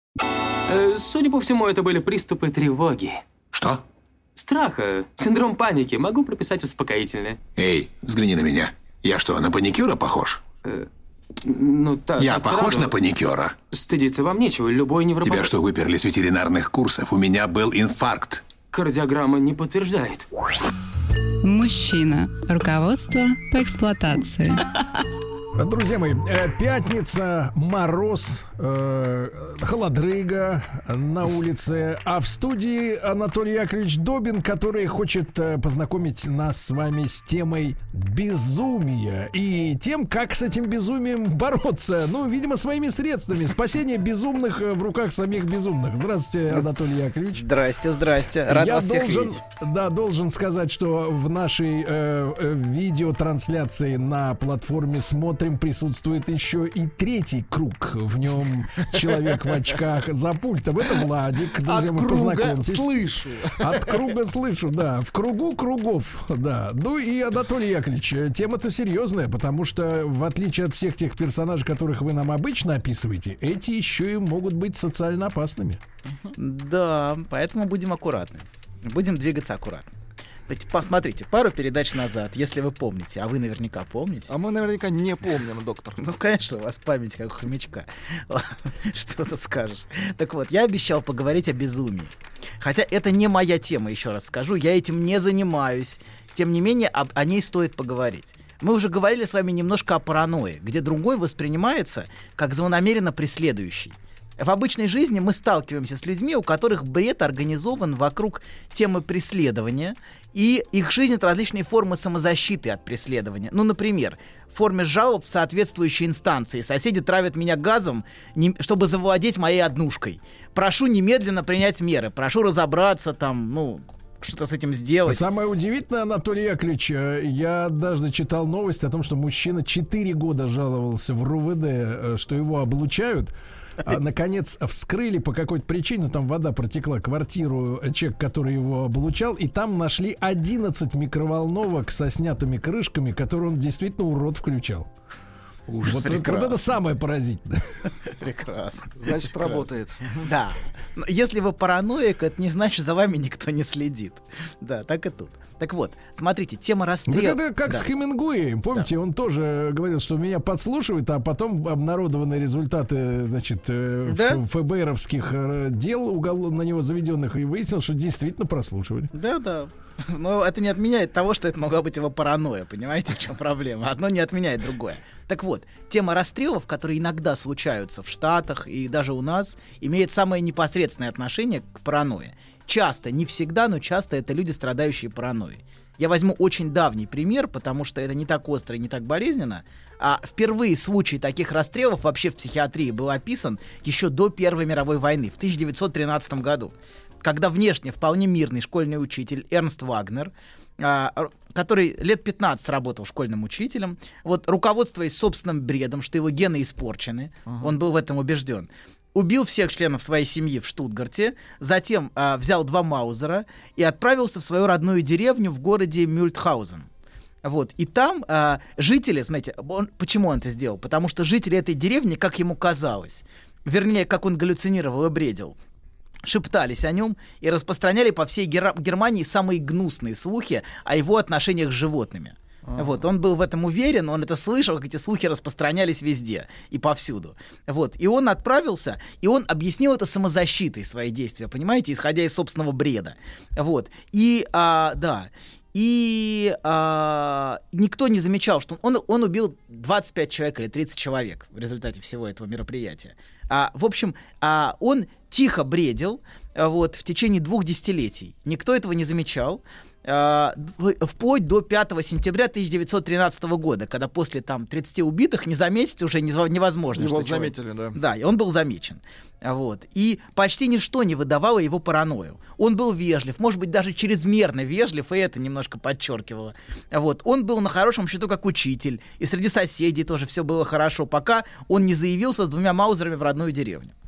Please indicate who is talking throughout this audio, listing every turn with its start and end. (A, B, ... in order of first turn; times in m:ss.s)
0:00.7-0:03.2 A
0:03.5-0:03.8 B
0:04.4-0:07.4 A
0:07.6-0:10.4 B
0:11.4-0:12.9 A
0:12.2-0:13.6 B
0:13.7-0:15.5 A
0:15.2-0:18.4 B
0:18.7-0:20.3 A
0:21.4-0:24.7 C
0:25.6-0:47.5 D
0:47.3-0:49.4 E
0:48.4-1:02.9 D
0:59.1-0:59.4 F
1:01.6-1:03.9 F
1:03.6-1:15.8 D
1:16.4-1:19.9 E
1:20.5-1:24.3 E
1:24.3-1:26.0 F
1:26.0-2:05.2 E
2:05.0-2:24.9 D
2:25.7-2:27.9 D
2:25.8-2:26.7 E
2:28.0-2:29.7 E
2:29.0-2:30.3 F
2:30.2-2:37.9 E
2:37.1-2:49.1 D
2:44.0-2:44.4 E
2:49.1-3:16.7 E
3:17.2-3:36.9 E
3:27.5-3:27.7 F
3:37.4-3:45.6 E
3:46.2-4:43.9 E
4:26.9-4:28.0 F